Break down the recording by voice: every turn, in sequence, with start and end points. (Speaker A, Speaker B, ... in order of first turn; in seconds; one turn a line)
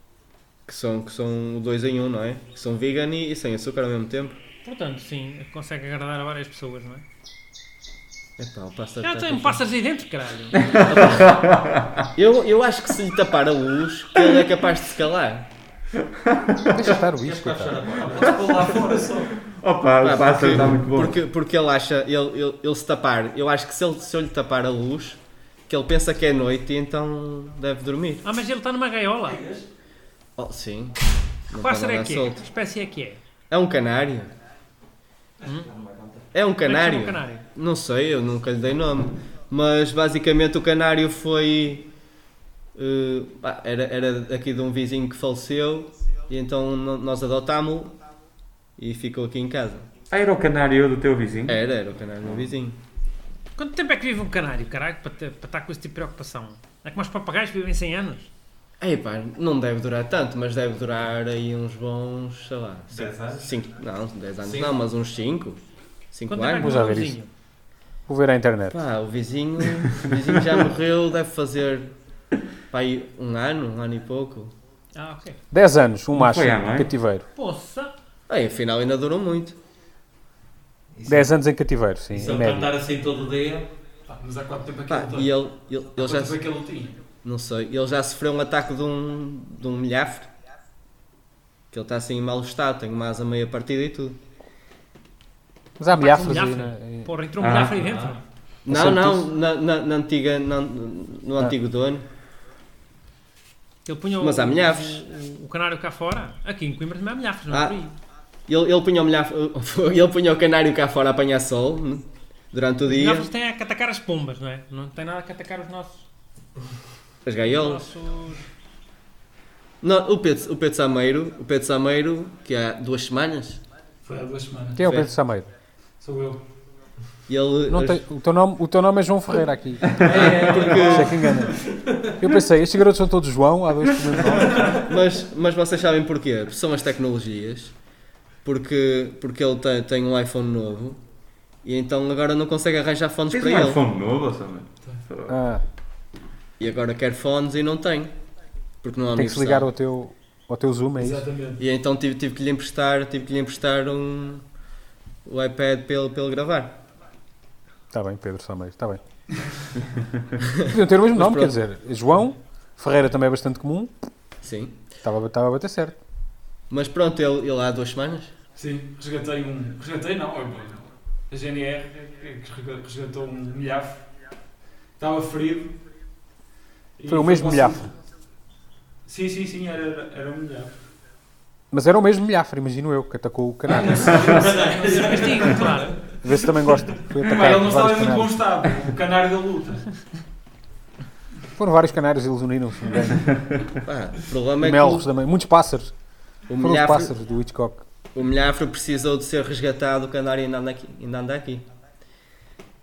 Speaker A: 0.7-4.4
Speaker B: 4.6-7.0
Speaker A: 8.4-9.6
Speaker B: 9.0-10.6
Speaker C: 10.6-12.1
Speaker A: 10.9-11.5
Speaker A: 12.2-15.5
Speaker C: 16.3-16.7
Speaker D: 16.7-17.9
Speaker E: 17.0-18.7
Speaker F: 18.1-19.3
Speaker C: 19.4-21.2
Speaker A: 20.0-28.2
Speaker B: 28.2-29.4
Speaker E: 29.3-29.6
Speaker A: 30.4-31.0
Speaker A: 31.5-32.5
Speaker B: 31.5-33.2
Speaker A: 33.5-34.3
Speaker B: 35.4-35.7
Speaker E: 35.5-36.2
Speaker A: 36.3-41.9
Speaker B: 36.6-37.4
Speaker A: 42.8-48.0
Speaker A: 48.8-49.9
Speaker C: 50.1-51.6
Speaker A: 51.5-52.8
Speaker B: 53.6-58.3
Speaker A: 58.8-65.6
Speaker E: 62.9-63.5
Speaker E: 64.4-64.8
Speaker A: 66.1-66.7
Speaker B: 66.3-67.3
Speaker D: 66.6-67.2
Speaker D: 68.1-68.8
Speaker A: 68.7-71.9
Speaker A: 72.7-74.5
Speaker B: 75.0-75.4
Speaker D: 75.5-77.3
Speaker C: 76.1-76.9
Speaker B: 77.3-77.9
Speaker A: 78.3-79.6
Speaker E: 81.0-81.3
Speaker D: 81.1-82.7
Speaker E: 82.1-83.7
Speaker F: 84.1-85.4
Speaker A: 84.9-86.4
Speaker F: 86.0-87.0
Speaker A: 87.2-90.3
Speaker A: 91.7-94.2
Speaker D: 95.8-97.1
Speaker B: 95.9-98.2
Speaker C: 97.4-97.8
Speaker E: 97.8-98.2
Speaker A: 98.7-102.0
Speaker D: 98.7-99.3
Speaker B: 103.9-108.0
Speaker A: 104.2-105.0
Speaker A: 107.5-107.8
Speaker A: 108.5-113.3
Speaker B: 112.9-116.1
Speaker A: 117.2-117.8
Speaker B: 117.4-118.5
Speaker A: 119.8-123.6
Speaker F: 124.0-124.9
Speaker D: 124.8-125.5
Speaker A: 124.8-125.1
Speaker F: 126.0-126.5
Speaker A: 127.3-128.0
Speaker D: 127.7-134.7
Speaker F: 130.0-131.5
Speaker A: 130.0-131.3
Speaker A: 134.7-137.8
Speaker A: 138.4-141.0
Speaker A: 141.6-143.8
Speaker C: 143.3-145.3
Speaker D: 145.3-145.6
Speaker A: 146.6-148.1
Speaker A: 148.8-149.7
Speaker D: 149.1-151.3
Speaker F: 151.0-151.6
Speaker A: 151.6-154.4
Speaker A: 155.2-156.8
Speaker D: 157.9-159.0
Speaker A: 160.4-161.6
Speaker D: 160.6-163.9
Speaker A: 164.4-164.8
Speaker D: 165.0-166.0
Speaker A: 166.7-168.3
Speaker F: 168.6-174.1
Speaker F: 175.0-175.8
Speaker F: 177.0-177.9
Speaker D: 177.1-177.9
Speaker F: 179.1-180.9
Speaker D: 181.7-184.5
Speaker F: 183.7-185.9
Speaker E: 184.5-185.1
Speaker B: 184.8-186.0
Speaker D: 186.2-188.4
Speaker F: 187.1-189.9
Speaker D: 191.6-193.5
Speaker A: 193.8-195.1
Speaker D: 194.6-195.9
Speaker A: 196.5-197.1
Speaker D: 196.6-197.8
Speaker A: 198.2-201.7